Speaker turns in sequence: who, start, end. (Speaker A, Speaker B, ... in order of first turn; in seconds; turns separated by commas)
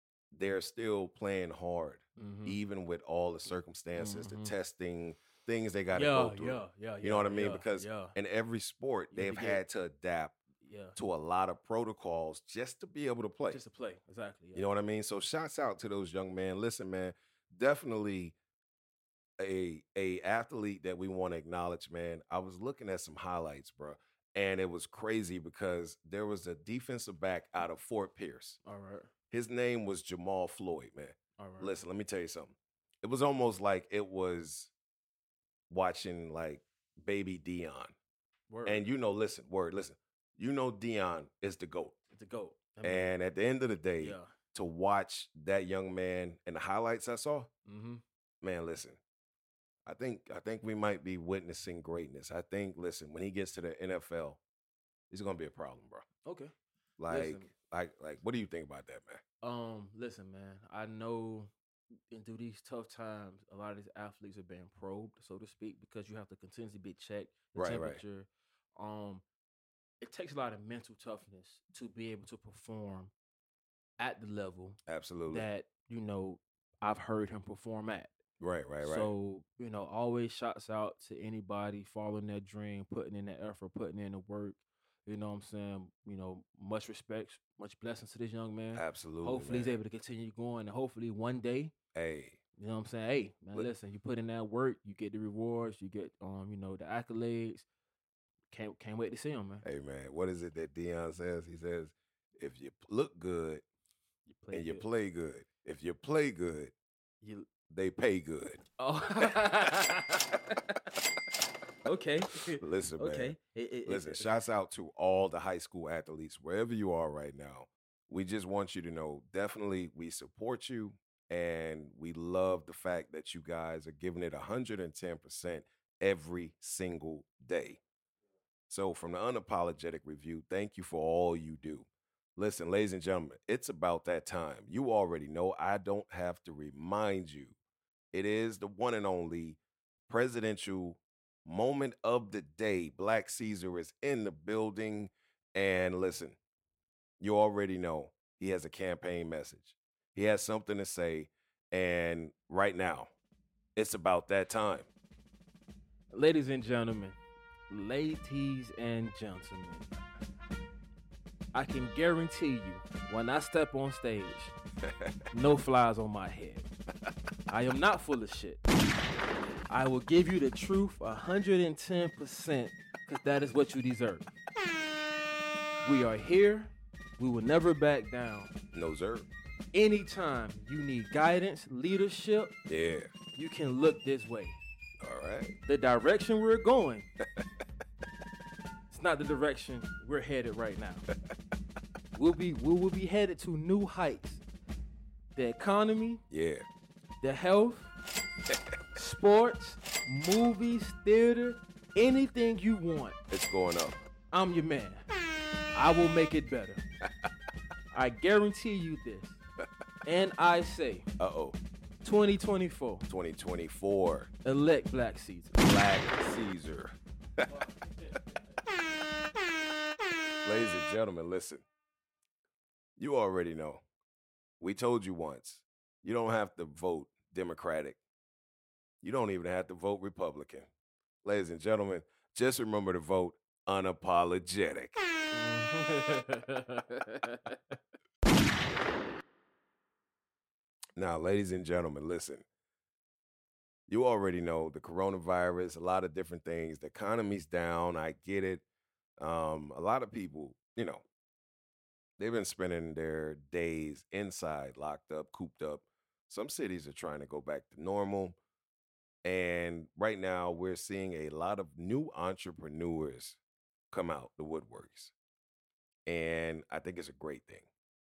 Speaker A: 0.3-10.4, Speaker B: 2.2-2.6, Speaker B: 4.0-4.5, Speaker B: 5.9-8.1, Speaker B: 9.1-9.6, Speaker B: 10.6-11.0, Speaker A: 10.9-13.6, Speaker B: 13.5-14.6, Speaker A: 14.5-18.3, Speaker A: 19.4-28.6, Speaker B: 28.6-29.1, Speaker A: 29.3-34.7, Speaker B: 31.4-31.7, Speaker A: 35.7-37.9, Speaker B: 38.5-38.8, Speaker A: 38.6-42.0, Speaker B: 42.1-43.1, Speaker A: 42.8-47.5, Speaker B: 44.0-44.3, Speaker B: 47.6-48.0, Speaker A: 48.4-49.0, Speaker A: 49.9-54.4, Speaker A: 55.1-56.0, Speaker B: 56.2-56.5, Speaker A: 57.0-59.2, Speaker B: 57.1-57.5, Speaker B: 59.4-61.5, Speaker B: 62.1-69.2, Speaker A: 67.5-68.0, Speaker B: 70.0-73.1, Speaker B: 74.0-74.8, Speaker A: 74.9-75.5, Speaker B: 75.3-78.1, Speaker A: 78.4-79.1, Speaker B: 78.8-91.7, Speaker A: 88.7-89.8, Speaker A: 91.9-92.4, Speaker B: 92.6-97.7, Speaker B: 98.5-99.6, Speaker A: 99.6-103.6, Speaker B: 104.3-104.9, Speaker A: 104.5-106.7, Speaker B: 107.2-107.5, Speaker A: 107.7-108.6, Speaker B: 108.8-110.7, Speaker B: 111.8-114.3, Speaker A: 112.5-127.8, Speaker A: 128.7-137.6, Speaker A: 138.1-146.4, Speaker A: 147.2-153.1, Speaker A: 153.8-154.9, Speaker B: 156.1-157.2, Speaker B: 157.7-159.9, Speaker B: 161.5-164.5, Speaker A: 164.8-165.2, Speaker B: 165.3-166.7, Speaker B: 167.5-168.6, Speaker B: 169.7-174.3, Speaker B: 175.8-178.5, Speaker A: 178.7-179.3, Speaker B: 179.7-182.5, Speaker A: 182.7-183.1, Speaker B: 183.3-184.6, Speaker A: 185.0-185.5, Speaker B: 185.7-187.1, Speaker B: 188.9-191.0, Speaker B: 192.1-194.4, Speaker B: 195.3-196.2, Speaker A: 196.3-196.7, Speaker B: 197.2-197.9, Speaker A: 198.5-198.7, Speaker B: 198.9-203.2, Speaker A: 203.3-204.0, Speaker B: 204.3-205.0, Speaker B: 205.7-206.8, Speaker B: 207.9-209.4, Speaker B: 210.0-211.1, Speaker A: 211.2-211.6, Speaker B: 212.0-213.1, Speaker A: 213.1-214.3, Speaker B: 214.4-215.6, Speaker A: 215.6-217.7, Speaker A: 220.4-221.6, Speaker A: 223.0-223.8, Speaker A: 224.6-228.0, Speaker A: 229.0-230.7, Speaker A: 231.2-235.0, Speaker B: 235.3-237.8, Speaker A: 240.9-242.4, Speaker A: 243.9-248.6, Speaker A: 249.2-251.0, Speaker A: 252.2-258.4, Speaker A: 259.2-263.4, Speaker A: 263.9-265.1, Speaker A: 266.1-267.7